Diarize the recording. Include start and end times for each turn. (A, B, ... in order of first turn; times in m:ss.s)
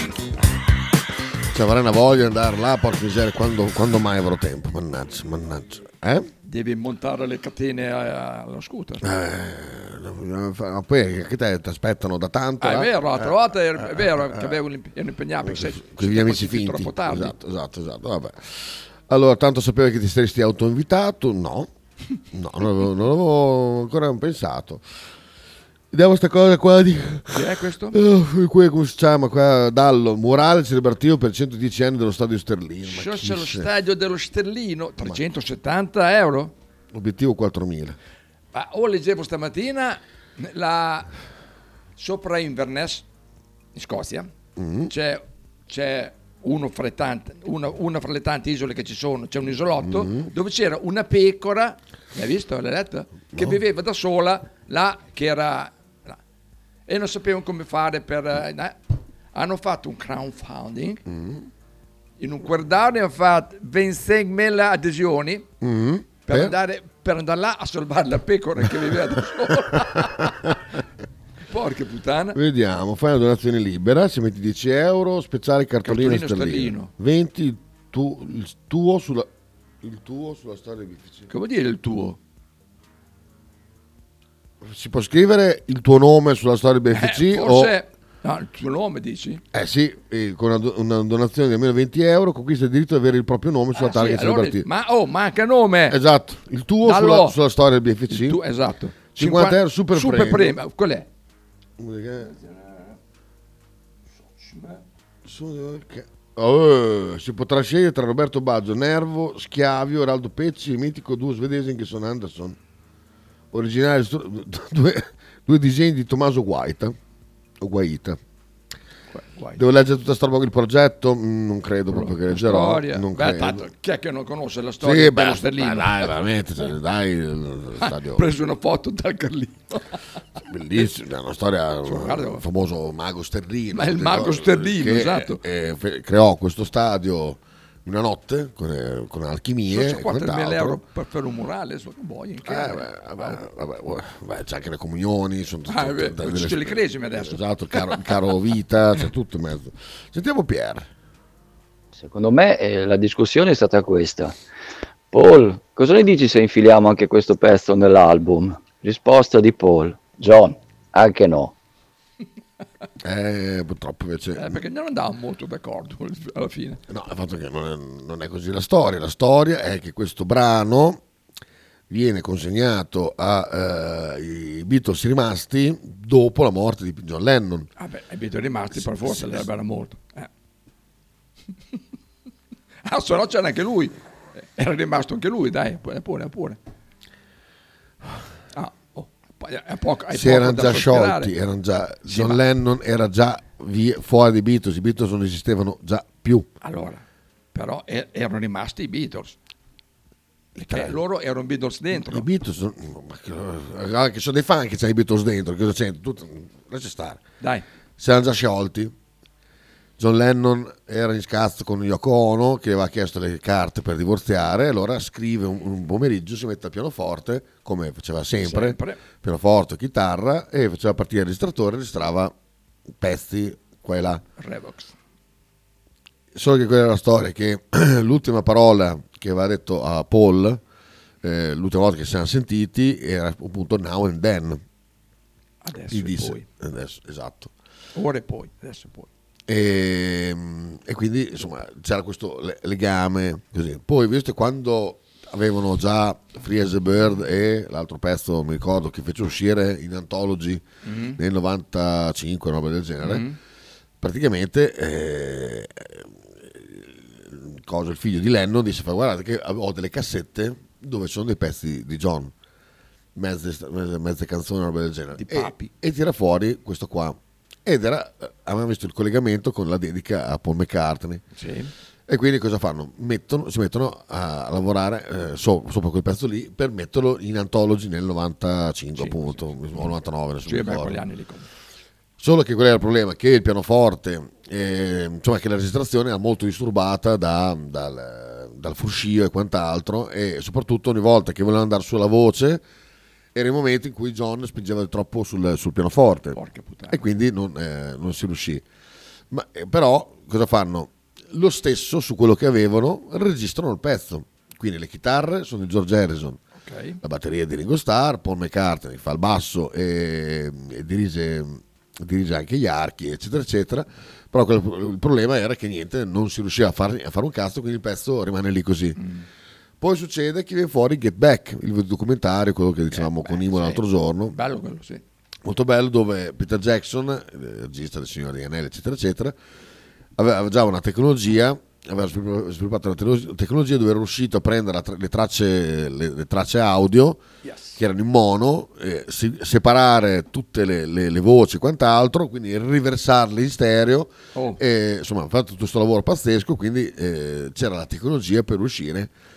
0:01.5-0:06.3 A
0:06.4-0:09.0 B
0:09.0-0:14.6 A
0:12.6-0:17.3 B
0:15.4-0:21.7 A
0:22.3-0:24.8 A
0:25.9-0:33.7 A
0:27.3-0:28.0 B
0:32.8-0:36.5 B
0:36.9-0:38.0 A
0:38.5-0:41.1 B
0:42.0-0:43.0 B
0:43.8-0:44.3 B
0:44.6-0:44.9 A
0:44.9-0:56.2 B
0:49.8-0:50.3 A
0:53.3-0:53.6 A
0:56.9-0:58.8 B
0:59.3-1:01.0 B
1:01.0-1:01.5 A
1:02.2-1:05.5 B
1:05.6-1:06.6 A
1:06.2-1:10.3 B
1:09.7-1:10.5 A
1:11.5-1:12.4 B
1:12.3-1:19.3 A
1:15.8-1:16.9 B
1:19.8-1:21.3 A
1:21.3-1:22.2 B
1:24.6-1:27.7 A
1:26.9-1:29.4 B
1:29.5-1:34.7 A
1:33.7-1:36.0 B
1:35.9-1:38.4 A
1:36.8-1:37.4 B
1:38.1-1:41.1 B
1:39.2-1:40.6 A
1:41.8-1:42.3 A
1:42.2-1:43.0 B
1:44.2-1:44.8 B
1:45.2-1:52.6 A
1:53.5-1:57.0 A
1:57.6-1:58.2 A
1:59.1-1:59.6 B
1:59.6-2:03.7 A
2:01.9-2:06.1 B
2:04.8-2:08.3 A
2:07.8-2:10.0 B
2:10.4-2:20.8 A
2:11.8-2:12.4 B
2:13.7-2:15.4 B
2:19.7-2:23.4 B
2:22.4-2:30.9 A
2:25.7-2:28.0 B
2:31.9-2:34.4 C
2:35.1-2:41.5 C
2:43.0-2:44.6 A
2:44.4-2:46.8 B
2:46.9-2:51.0 A
2:51.9-2:57.7 A
2:57.8-3:00.3 B
2:58.7-2:59.4 A
3:02.8-3:06.6 B
3:08.5-3:11.3 B
3:10.1-3:16.5 A
3:12.1-3:12.4 B
3:16.6-3:17.0 B
3:17.5-3:19.4 B
3:20.6-3:21.0 A
3:20.6-3:22.3 B
3:21.9-3:27.2 A
3:28.0-3:28.9 A
3:30.0-3:42.3 A
3:38.4-3:39.0 B
3:43.0-3:44.2 A
3:44.4-3:44.9 B
3:46.3-3:50.6 A
3:51.2-3:54.6 A
3:55.6-3:56.4 B
3:55.9-3:57.5 A
3:58.0-3:59.1 B
3:59.5-4:13.2 A
4:10.8-4:11.2 B
4:13.0-4:13.4 B
4:14.0-4:22.3 A
4:23.1-4:31.2 A
4:25.2-4:25.7 B
4:31.3-4:31.7 B
4:32.1-4:41.0 A
4:39.0-4:39.9 B
4:40.4-4:41.5 B
4:42.2-4:52.6 A
4:53.3-4:58.6 A
4:56.3-4:57.0 B
4:59.3-5:06.4 A
5:06.6-5:07.0 B
5:07.0-5:19.0 A
5:19.0-5:19.3 B
5:19.8-5:24.4 A
5:22.9-5:25.0 B
5:25.4-5:29.4 A
5:30.2-5:37.2 A
5:37.4-5:37.8 B
5:37.8-5:49.1 A